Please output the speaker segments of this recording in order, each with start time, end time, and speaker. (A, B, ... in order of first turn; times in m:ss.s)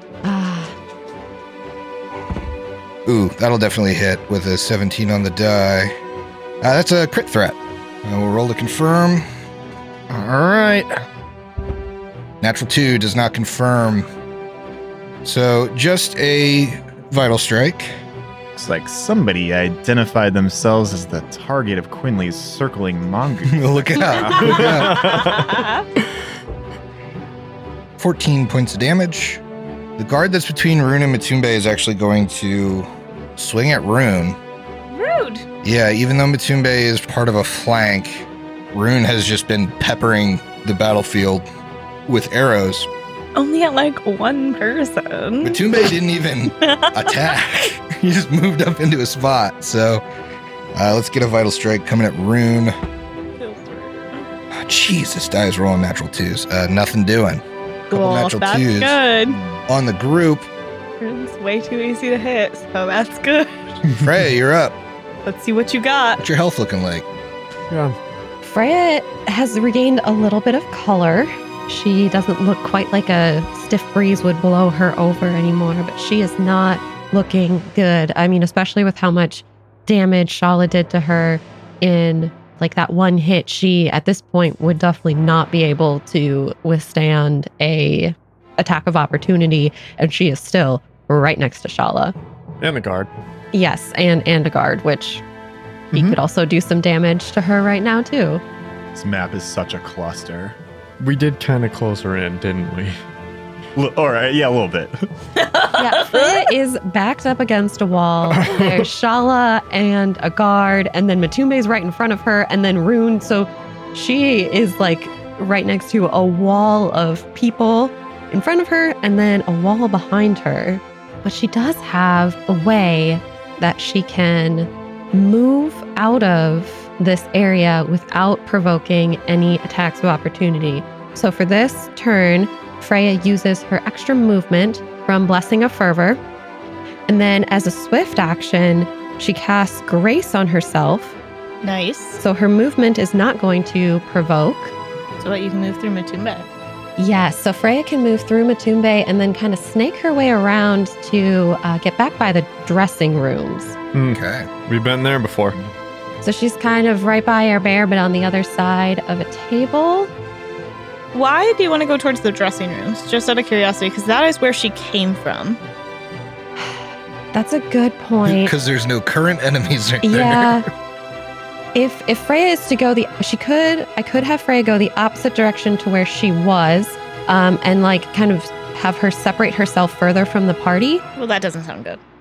0:00.2-0:00.7 A
0:03.1-0:05.9 B
0:06.6-0:09.2 B
0:10.1-0:11.0 C
0:12.4-0:14.1 B
0:15.2-0:18.0 B
0:18.6-0:25.0 C
0:23.5-0:25.2 B
0:24.4-0:25.9 D
0:24.6-0:25.5 E
0:28.0-0:29.4 B
0:30.0-0:34.4 B
0:34.9-0:35.4 D
0:35.6-0:41.4 B
0:42.1-0:42.9 B
0:43.4-0:45.7 D
0:45.4-0:50.0 B
0:46.6-0:47.5 D
0:50.8-0:52.7 B
0:53.4-0:54.3 D
0:54.6-1:00.5 B
0:57.9-0:59.4 D
1:01.0-1:03.5 D
1:03.9-1:04.8 B
1:05.3-1:06.2 D
1:06.2-1:07.1 B
1:07.7-1:08.0 E
1:08.4-1:32.2 A
1:32.6-1:33.1 E
1:33.5-1:35.2 A
1:35.9-1:36.2 C
1:35.9-1:38.4 A
1:39.0-1:40.6 C
1:41.0-1:43.0 E
1:43.8-1:45.0 C
1:45.4-1:46.5 D
1:45.8-2:16.2 A
1:48.3-1:48.9 E
2:17.1-2:21.2 A
2:21.6-2:22.2 D
2:22.2-2:24.7 A
2:25.2-2:26.5 D
2:27.0-2:33.8 A
2:33.9-2:35.6 E
2:34.1-2:34.5 B
2:36.2-2:40.1 A
2:41.1-2:45.6 D
2:47.3-2:48.5 A
2:48.2-2:50.6 B
2:50.0-2:50.7 A
2:51.7-3:01.0 A
3:01.2-3:02.0 D